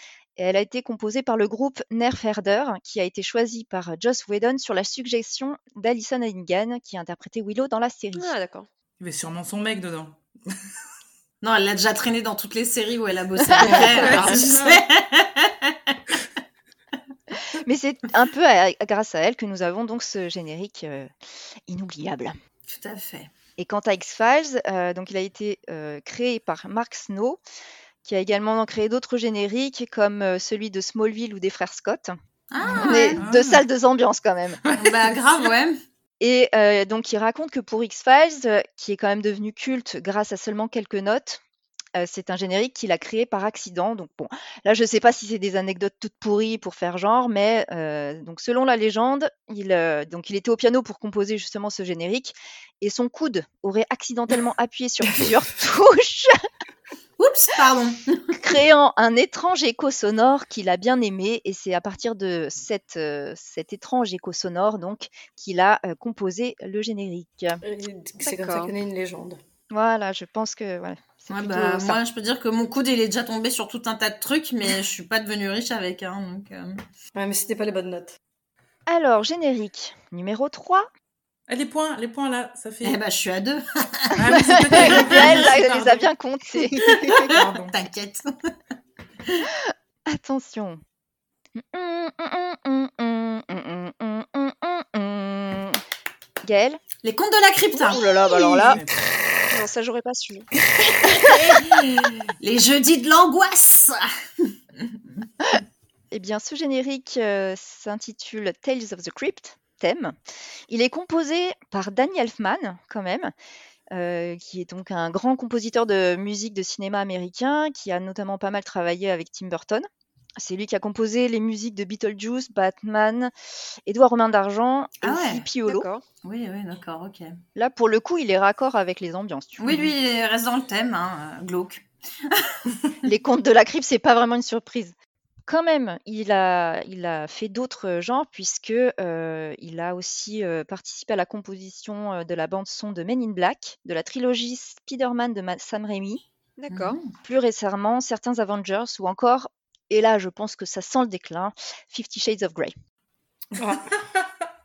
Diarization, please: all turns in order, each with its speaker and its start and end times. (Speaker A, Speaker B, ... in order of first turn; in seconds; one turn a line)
Speaker A: 0.4-8.3
Speaker B: 8.2-8.7
Speaker C: 9.0-10.6
Speaker D: 11.4-15.9
Speaker E: 13.6-14.0
Speaker C: 13.7-14.8
Speaker B: 13.8-14.3
Speaker A: 17.5-21.1
Speaker A: 21.7-22.3
Speaker D: 22.7-23.3
Speaker A: 23.6-27.4
Speaker A: 28.0-32.1
Speaker D: 32.5-33.2
Speaker C: 32.7-33.6
Speaker A: 32.7-34.6
Speaker C: 34.6-35.0
Speaker D: 34.8-35.8
Speaker A: 36.2-41.4
Speaker A: 41.9-56.3
Speaker D: 57.2-58.4
Speaker A: 58.4-67.6
Speaker E: 67.6-69.4
Speaker B: 68.2-68.7
Speaker A: 69.7-72.0
Speaker D: 71.3-76.8
Speaker E: 77.1-78.2
Speaker A: 78.9-80.9
Speaker C: 81.5-83.0
Speaker D: 82.8-84.2
Speaker C: 84.1-86.0
Speaker A: 84.2-87.2
Speaker D: 87.0-88.5
Speaker C: 87.0-87.7
Speaker A: 89.5-90.8
Speaker A: 91.5-95.8
Speaker A: 96.4-96.8
Speaker D: 97.0-98.2
Speaker A: 97.7-98.8
Speaker C: 98.5-99.0
Speaker B: 99.5-100.5
Speaker D: 101.0-104.1
Speaker A: 106.1-110.2
Speaker A: 110.7-113.3
Speaker A: 113.9-119.9
Speaker A: 120.4-123.3
Speaker A: 123.8-125.9
Speaker D: 125.0-125.4
Speaker B: 125.7-126.0
Speaker D: 126.2-127.4
Speaker A: 127.5-129.9
Speaker D: 129.6-132.6
Speaker A: 133.1-134.9
Speaker A: 135.5-146.2
Speaker B: 146.6-147.0
Speaker D: 146.7-147.1
Speaker A: 147.2-152.7
Speaker E: 153.6-153.9